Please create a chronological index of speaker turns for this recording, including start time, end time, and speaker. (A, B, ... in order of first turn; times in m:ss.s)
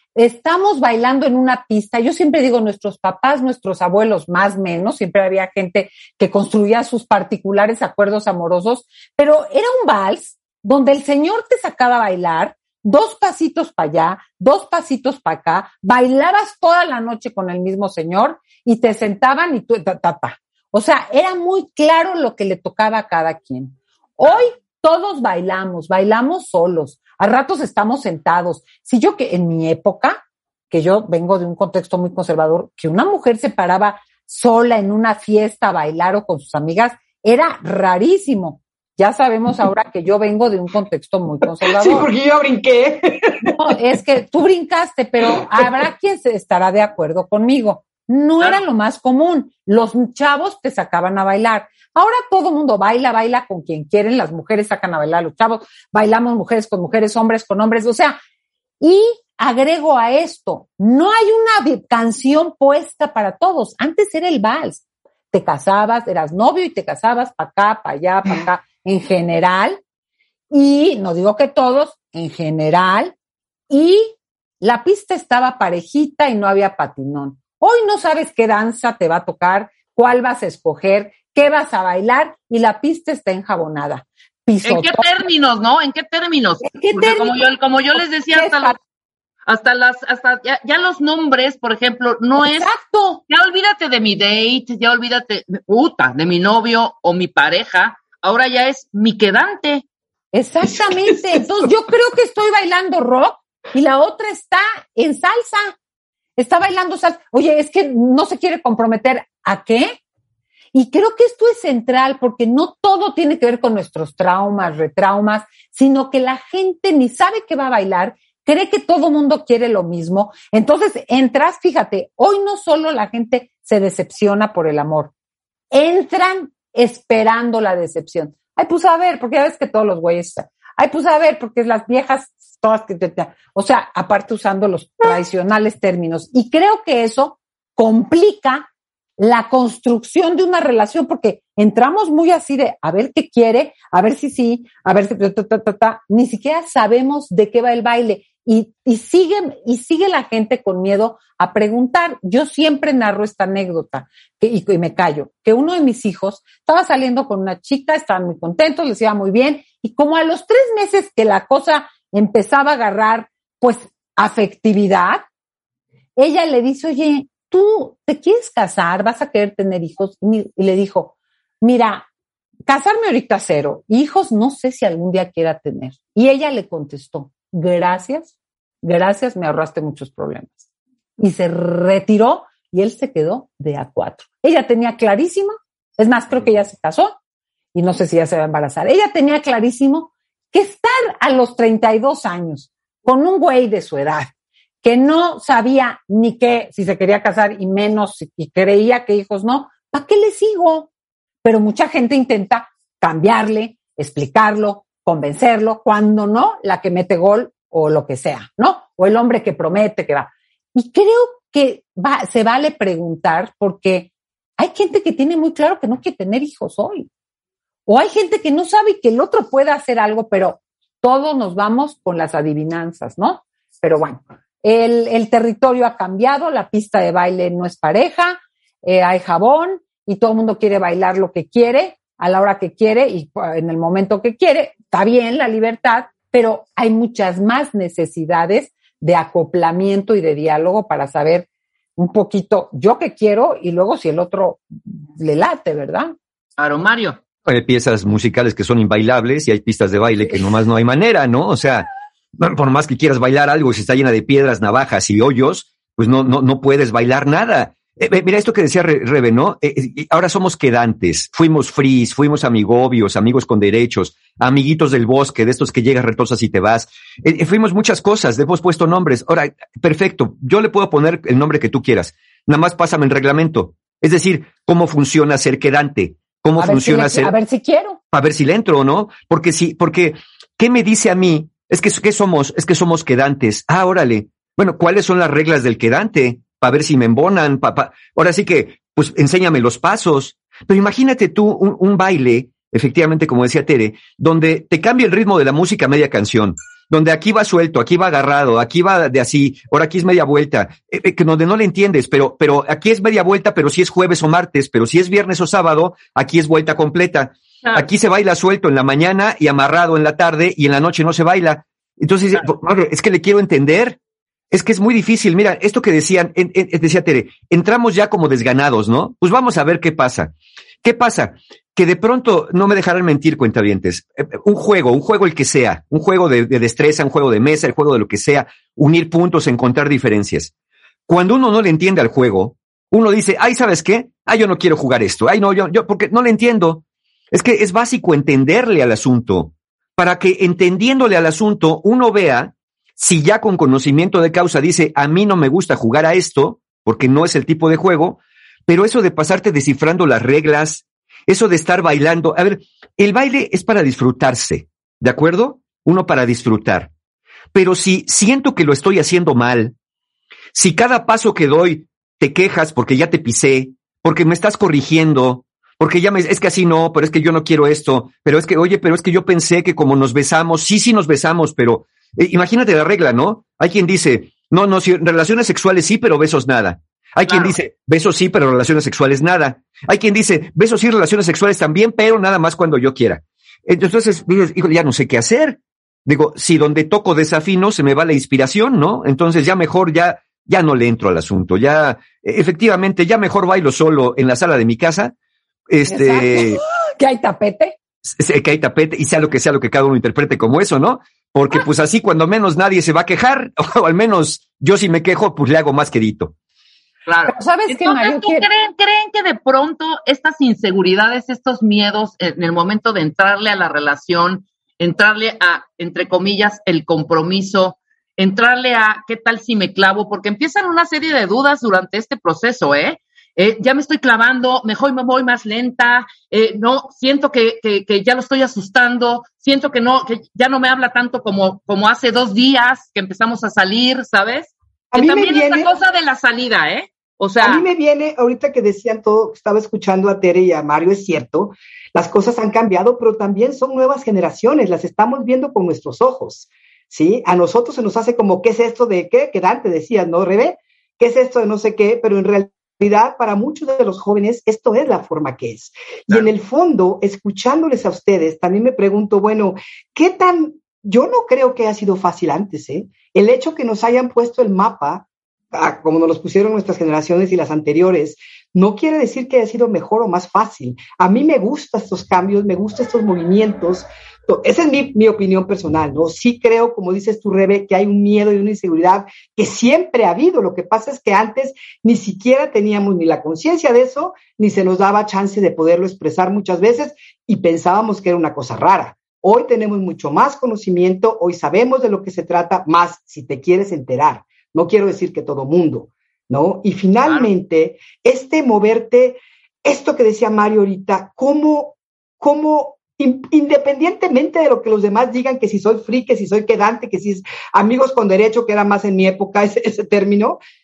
0:00.2-0:42.1 A
0:41.7-0:43.5 B
0:43.5-0:58.2 A
0:58.8-1:09.8 A
1:10.5-1:13.1 A
1:13.7-1:25.0 A
1:24.6-1:28.8 C
1:26.6-1:27.4 A
1:28.3-1:28.8 A
1:29.4-1:32.7 C
1:32.4-1:33.2 A
1:33.3-1:39.8 C
1:40.3-1:45.8 A
1:46.4-1:50.0 A
1:50.7-2:05.1 A
2:05.7-2:18.7 A
2:19.2-2:45.2 A
2:46.2-2:52.1 A
2:52.7-2:58.3 A
2:58.8-3:00.6 A
3:01.2-3:07.2 A
3:07.7-3:14.3 A
3:14.8-3:20.9 A
3:21.4-3:37.1 A
3:37.9-4:01.4 A
4:02.0-4:06.1 A
4:06.6-4:07.2 C
4:07.4-4:37.3 D
4:36.6-4:38.0 A
4:38.1-5:14.0 D
5:14.5-5:30.5 D
5:31.1-5:56.9 D
5:57.5-5:59.7 D
6:00.5-6:35.1 D
6:17.3-6:17.5 C
6:35.7-6:36.6 D
6:35.9-6:37.8 A
6:38.1-6:46.3 D
6:47.0-7:17.6 C
6:47.3-6:48.5 A
7:14.9-7:15.7 B
7:17.4-8:30.4 B
8:17.0-8:17.3 C